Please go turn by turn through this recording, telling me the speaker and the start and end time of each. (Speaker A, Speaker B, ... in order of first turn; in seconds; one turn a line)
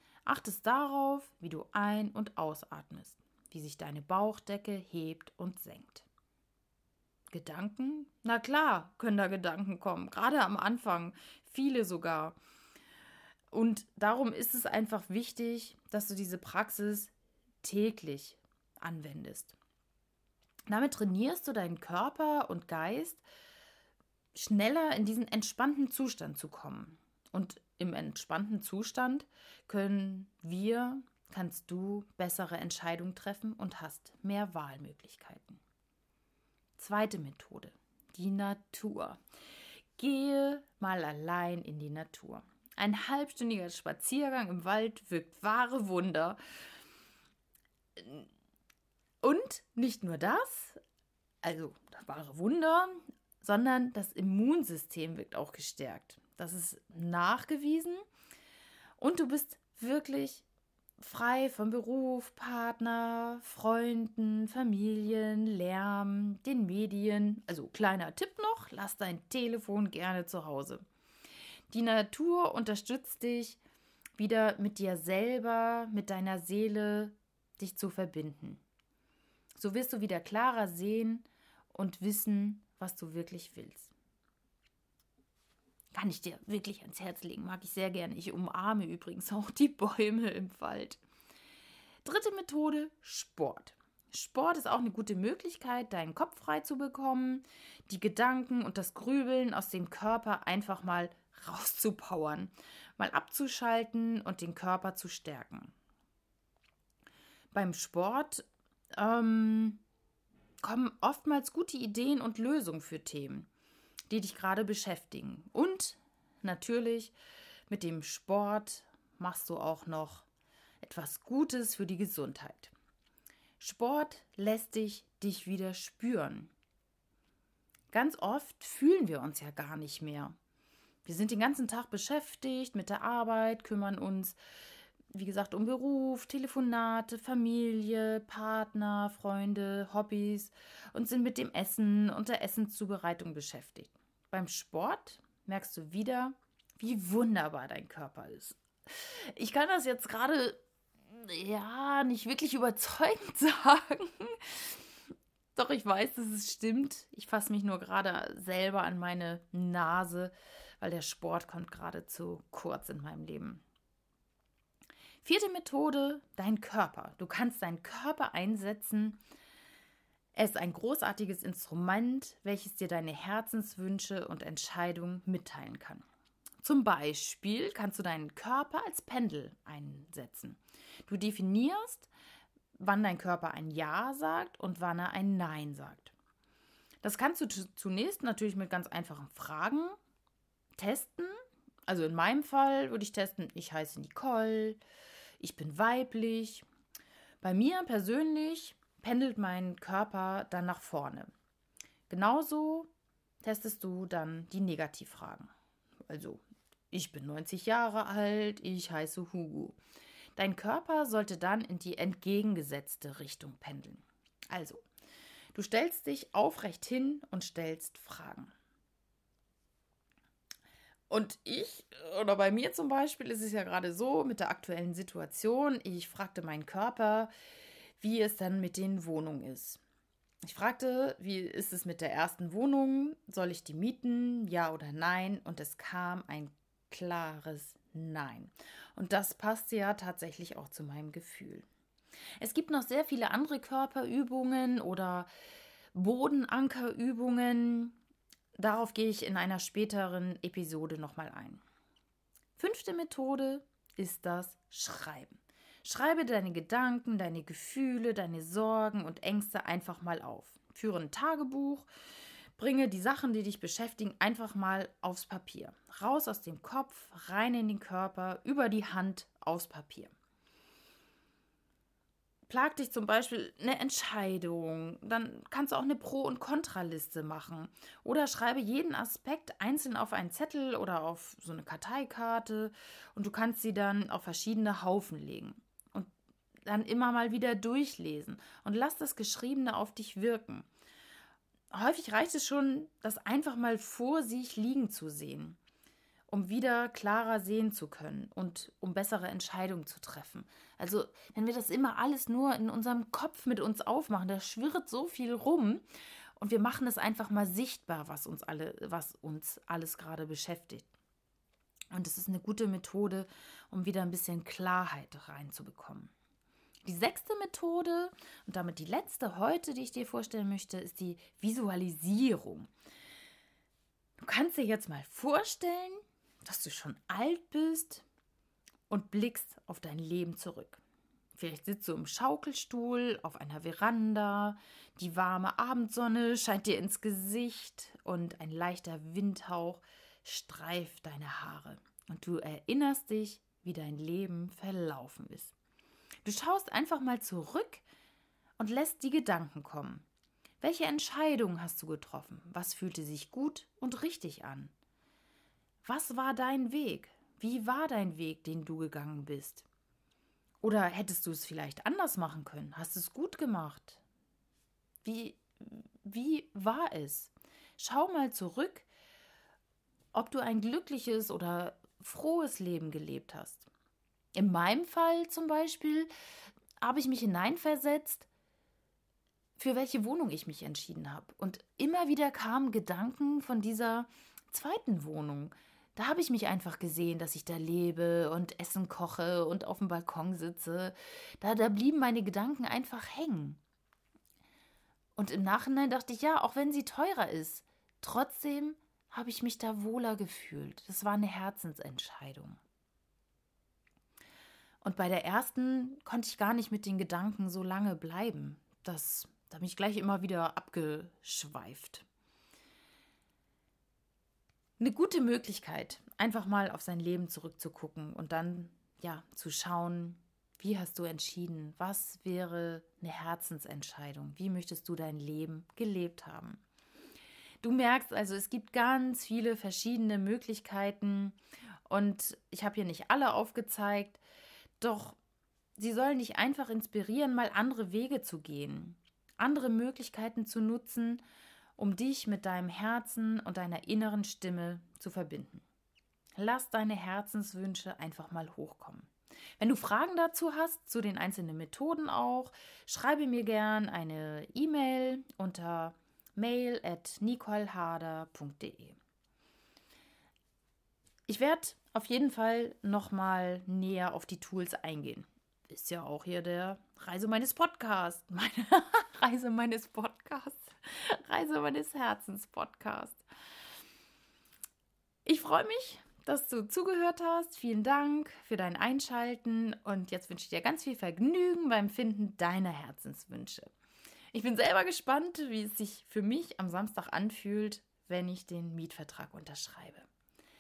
Speaker A: 0.3-6.1
Speaker A: 7.3-12.4
Speaker A: 13.5-17.1
Speaker A: 17.6-19.6
Speaker A: 20.7-23.2
Speaker A: 24.3-35.6
Speaker A: 36.8-39.2
Speaker A: 40.0-46.4
Speaker A: 48.0-48.3
Speaker A: 49.2-50.8
Speaker A: 51.4-58.0
Speaker A: 59.0-60.5
Speaker A: 61.0-70.8
Speaker A: 71.7-73.6
Speaker A: 74.2-78.6
Speaker A: 79.6-83.9
Speaker A: 85.9-91.0
Speaker A: 92.0-105.7
Speaker A: 107.5-109.8
Speaker A: 110.6-113.5
Speaker A: 114.1-117.1
Speaker A: 117.7-120.3
Speaker A: 120.8-122.7
Speaker A: 123.6-126.5
Speaker A: 127.9-130.4
Speaker A: 131.1-134.4
Speaker A: 135.1-154.8
Speaker A: 155.6-163.6
Speaker A: 165.2-169.2
Speaker A: 170.3-176.1
Speaker A: 176.6-182.1
Speaker A: 182.8-186.1
Speaker A: 187.0-190.0
Speaker A: 190.8-194.8
Speaker A: 195.4-196.7
Speaker A: 197.4-201.3
Speaker A: 202.1-202.9
Speaker A: 203.4-205.5
Speaker A: 206.1-206.4
Speaker A: 206.9-209.8
Speaker A: 210.4-214.8
Speaker A: 215.5-218.5
Speaker A: 221.1-227.3
Speaker A: 228.0-229.8
Speaker A: 230.4-241.7
Speaker A: 242.4-245.3
Speaker A: 245.9-247.9
Speaker A: 248.6-251.6
Speaker A: 252.6-261.9
Speaker A: 262.6-270.1
Speaker A: 272.5-286.1
Speaker A: 286.7-290.7
Speaker A: 291.7-295.6
Speaker A: 296.3-305.9
Speaker A: 306.4-310.9
Speaker A: 311.9-316.1
Speaker A: 316.9-322.7
Speaker A: 324.2-328.1
Speaker A: 328.9-330.8
Speaker A: 331.4-345.5
Speaker A: 346.2-347.8
Speaker A: 348.6-350.1
Speaker A: 350.6-354.7
Speaker A: 355.8-359.7
Speaker A: 360.6-364.0
Speaker A: 365.0-368.9
Speaker A: 370.1-373.7
Speaker A: 374.4-376.1
Speaker A: 376.8-378.3
Speaker A: 379.6-393.6
Speaker A: 395.2-402.6
Speaker A: 404.8-412.1
Speaker A: 414.8-426.6
Speaker A: 427.6-431.4
Speaker A: 431.9-434.2
Speaker A: 434.8-435.2
Speaker A: 435.8-441.2
Speaker A: 441.8-445.6
Speaker A: 446.4-459.0
Speaker A: 461.3-473.2
Speaker A: 475.3-483.7
Speaker A: 484.3-490.1